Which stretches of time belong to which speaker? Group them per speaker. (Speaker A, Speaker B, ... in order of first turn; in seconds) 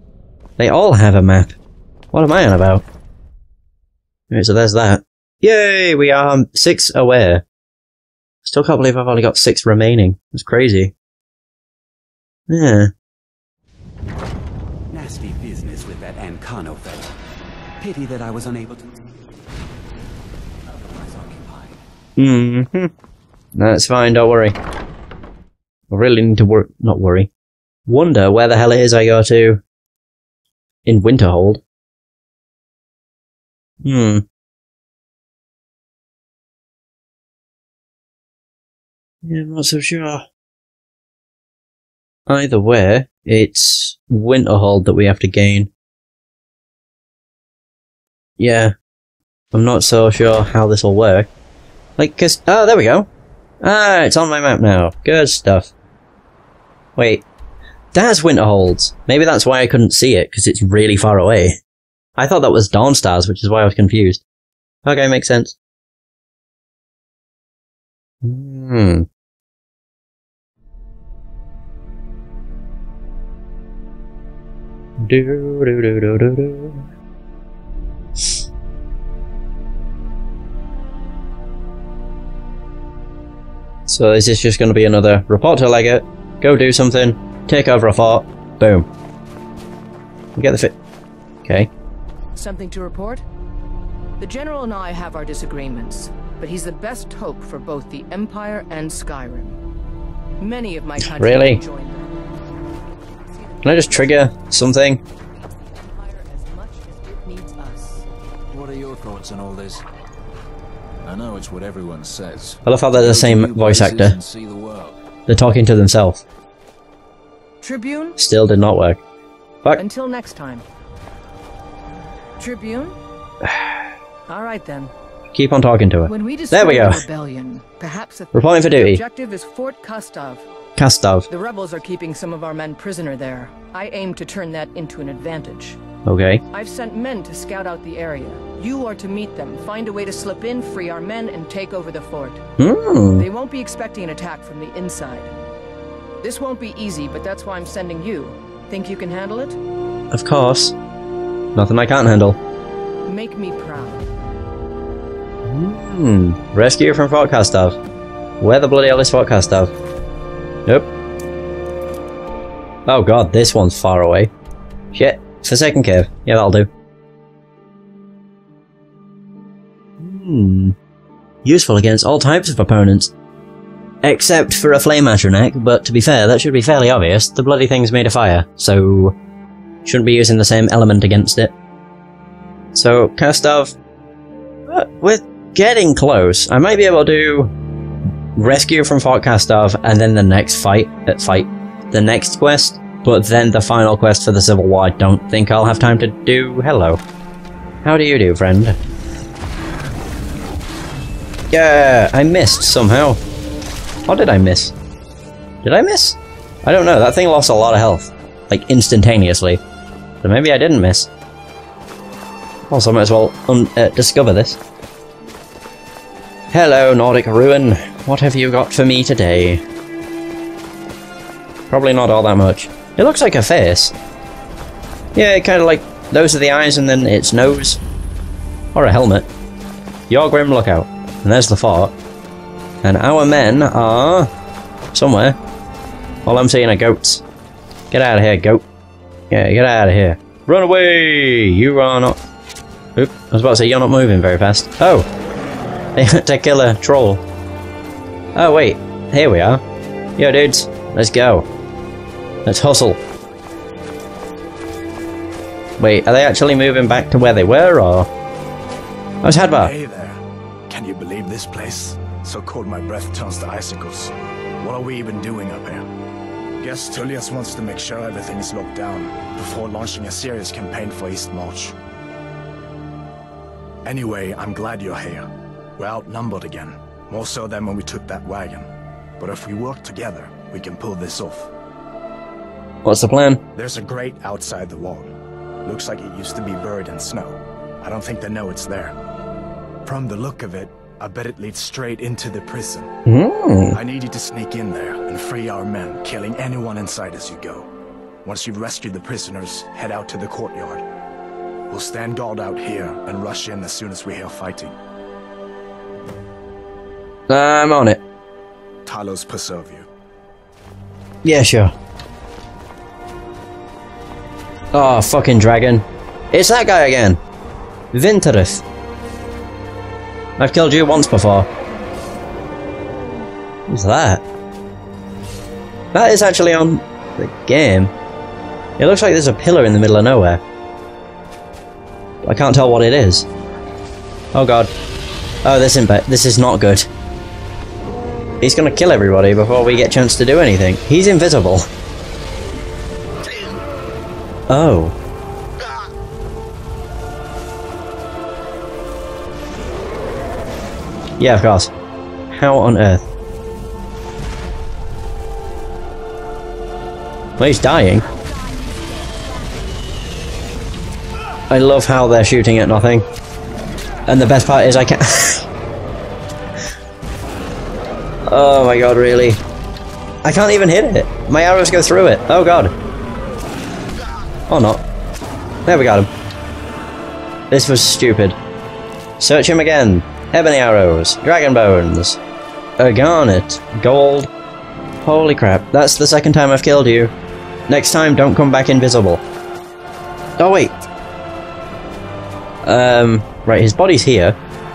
Speaker A: 0.6-1.5, 2.1-2.8, 4.3-7.4, 8.4-10.9, 12.5-12.9, 22.2-22.9, 23.6-24.6, 25.9-27.3, 27.9-29.6, 30.9-31.6, 33.8-34.2, 39.2-40.2, 42.3-45.7, 48.4-48.7, 49.5-51.3, 52.0-53.1, 53.6-55.7, 57.0-57.2, 57.9-61.6, 62.2-64.2, 64.8-65.5, 68.2-69.0, 75.0-76.8, 83.9-88.9, 90.3-90.7, 91.4-91.7, 101.0-101.6, 103.6-105.0, 112.6-114.2, 115.3-116.2, 118.2-119.0, 125.3-127.0, 128.3-129.0, 130.8-131.3, 136.1-136.4, 142.6-143.2, 150.1-150.7, 151.5-152.4, 155.5-157.8, 158.4-159.7, 162.9-164.3, 164.9-166.7, 170.0-170.7, 171.4-173.1, 174.0-179.1, 179.8-181.5, 182.7-183.7, 184.7-187.5, 188.3-197.0, 197.8-198.8, 201.5-203.2, 204.1-204.7, 205.6-209.6, 210.2-211.1, 212.7-214.6, 216.5-219.6, 221.7-223.9, 225.1-227.8, 228.7-229.3, 230.1-231.9, 232.8-234.3, 234.9-235.4, 236.2-237.2, 237.9-238.6, 239.3-242.2, 242.9-245.1, 245.9-247.2, 248.3-249.6, 250.2-251.4, 252.4-253.0, 255.8-258.1, 259.2-259.7, 282.8-283.4, 293.1-293.8, 307.3-308.0, 311.2-311.7, 314.7-317.2, 317.9-318.6, 320.4-321.5, 323.7-324.2, 325.9-327.9, 328.8-330.4, 332.2-333.2, 334.3-334.7, 335.4-336.9, 338.4-341.7, 344.5-344.9, 351.2-351.7, 352.3-353.0, 357.4-358.0, 361.5-363.1, 364.1-365.4, 368.2-369.4, 370.2-372.7, 374.5-374.8, 375.6-376.1, 377.5-378.4, 379.2-382.2, 382.8-384.3, 385.0-387.1, 387.7-389.2, 390.4-390.7, 392.6-394.4
Speaker B: 14.9-17.1, 17.8-19.0, 20.7-21.8, 113.2-113.5
Speaker C: 92.3-93.2, 94.2-99.6, 100.4-104.3, 105.3-108.0, 117.6-118.2, 119.8-120.6, 122.4-123.0, 124.3-124.9, 126.0-130.4, 131.3-135.8, 136.5-142.4, 143.2-145.3, 146.2-149.6, 153.1-154.1
Speaker D: 108.5-109.7, 111.1-112.5, 113.3-114.9
Speaker E: 259.5-265.8, 266.6-271.7, 273.8-275.2, 275.8-278.7, 279.2-281.5, 283.5-285.1, 285.6-288.9, 289.8-292.9, 293.7-297.7, 298.2-300.8, 301.7-304.7, 308.9-309.9